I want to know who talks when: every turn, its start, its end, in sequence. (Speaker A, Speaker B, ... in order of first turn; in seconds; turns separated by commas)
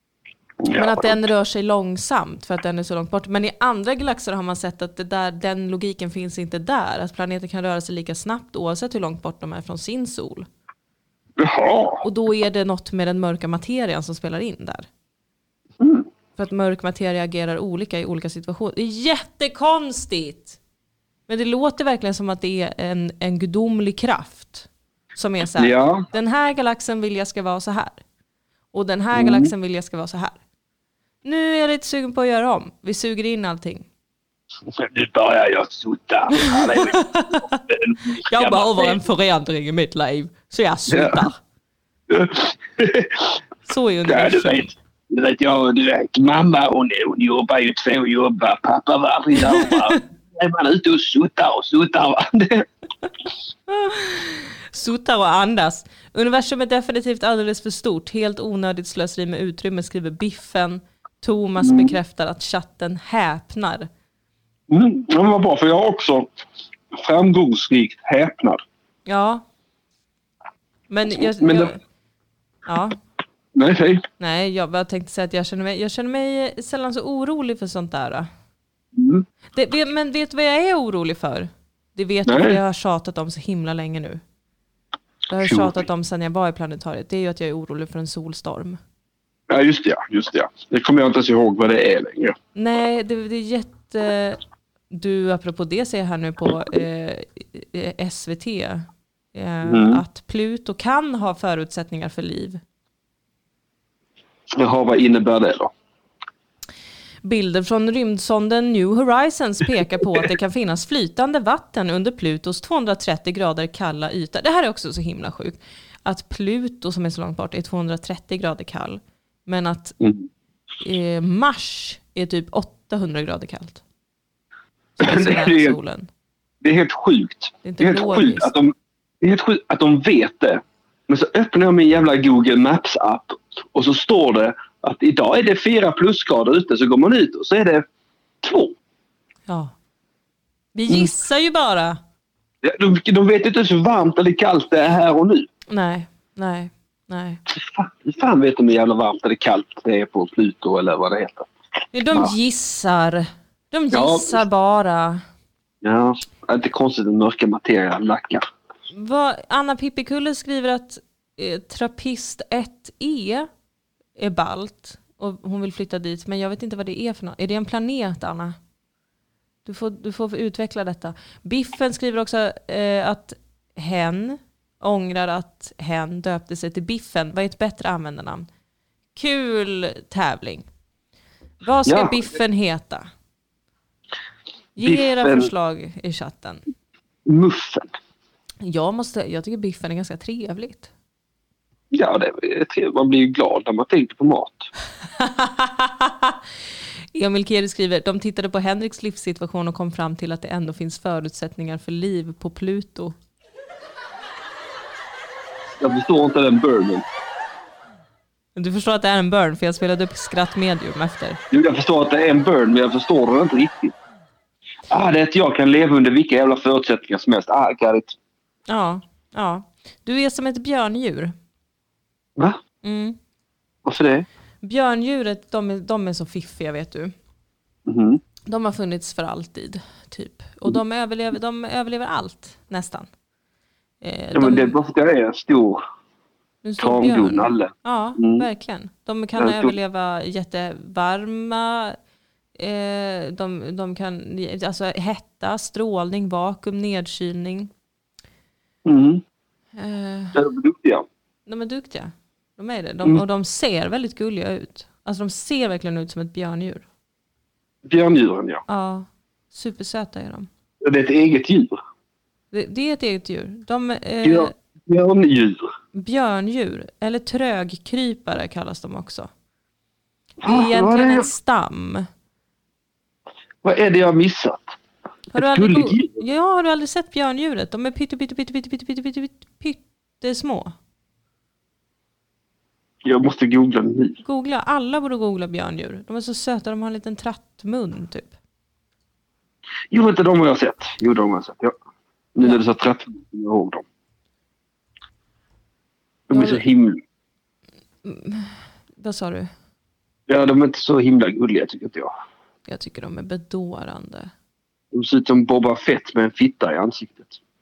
Speaker A: 0.6-1.2, Speaker B: 0.7-10.5, Speaker A: 11.4-12.0, Speaker B: 12.0-14.9, Speaker A: 15.8-16.1, Speaker B: 16.4-20.6, Speaker B: 21.3-28.0, Speaker A: 25.6-26.1, Speaker B: 28.7-30.4, Speaker A: 29.1-29.5, Speaker B: 31.2-33.9, Speaker A: 34.7-37.0, Speaker B: 36.3-37.6, Speaker A: 37.7-39.0, Speaker B: 38.2-41.4, Speaker A: 40.9-41.2, Speaker A: 42.1-43.4, Speaker B: 43.6-44.7, Speaker A: 44.1-52.7, Speaker B: 49.4-50.0, Speaker B: 53.7-63.9, Speaker A: 61.6-62.0, Speaker A: 64.7-66.3, Speaker A: 66.9-68.6, Speaker B: 69.1-69.4, Speaker B: 70.9-71.8, Speaker A: 71.1-71.7, Speaker B: 72.7-73.0, Speaker A: 73.5-74.0, Speaker B: 74.2-78.3, Speaker A: 78.9-79.2, Speaker B: 79.5-84.2, Speaker A: 82.2-82.6, Speaker B: 85.3-88.8, Speaker A: 85.4-85.8, Speaker A: 89.5-92.3, Speaker B: 92.5-94.4, Speaker B: 94.9-102.6, Speaker A: 99.7-100.0, Speaker A: 104.5-105.7, Speaker B: 107.2-120.0, Speaker A: 120.0-120.3, Speaker B: 120.8-123.8, Speaker A: 125.0-125.8, Speaker B: 125.0-126.1, Speaker A: 126.6-137.8, Speaker B: 127.6-128.5, Speaker A: 138.4-138.7, Speaker B: 139.5-139.7, Speaker B: 140.7-142.0, Speaker A: 142.6-145.5, Speaker B: 145.7-147.4, Speaker A: 147.5-151.5, Speaker B: 151.9-155.2, Speaker A: 153.9-154.4, Speaker A: 155.8-158.4, Speaker B: 158.9-163.5, Speaker B: 164.2-168.6, Speaker B: 169.6-178.5, Speaker B: 179.1-180.7, Speaker B: 181.6-183.1, Speaker A: 181.8-182.2, Speaker B: 184.8-186.6, Speaker A: 184.8-185.5, Speaker A: 187.2-187.9, Speaker B: 188.6-190.9, Speaker A: 191.9-194.7, Speaker B: 195.2-196.3, Speaker B: 197.1-203.1, Speaker A: 205.8-207.0, Speaker B: 208.6-211.4, Speaker A: 211.5-213.9, Speaker A: 214.9-218.2, Speaker B: 218.7-221.3, Speaker B: 222.8-223.2, Speaker A: 223.8-224.2, Speaker B: 224.6-227.1, Speaker A: 227.8-228.2, Speaker B: 228.5-233.1, Speaker B: 234.0-234.8, Speaker A: 234.3-235.8, Speaker B: 236.6-242.0, Speaker A: 236.8-238.4, Speaker A: 239.4-239.7, Speaker B: 242.6-247.7, Speaker A: 248.8-249.2, Speaker B: 249.8-250.4, Speaker A: 250.3-251.0, Speaker B: 251.4-256.8, Speaker A: 257.8-258.6, Speaker B: 258.7-260.5, Speaker A: 260.8-261.7, Speaker B: 262.5-264.5, Speaker A: 264.2-265.7, Speaker B: 265.9-269.3, Speaker A: 270.4-271.3, Speaker B: 270.4-272.1, Speaker A: 273.6-274.8, Speaker B: 275.3-280.7, Speaker A: 275.3-276.1, Speaker A: 283.0-284.2, Speaker B: 284.2-288.3, Speaker A: 289.9-291.8, Speaker A: 292.3-293.8, Speaker A: 296.3-297.0, Speaker B: 296.3-296.6, Speaker B: 298.0-299.5, Speaker A: 300.3-302.1, Speaker B: 302.6-304.3, Speaker A: 304.9-307.4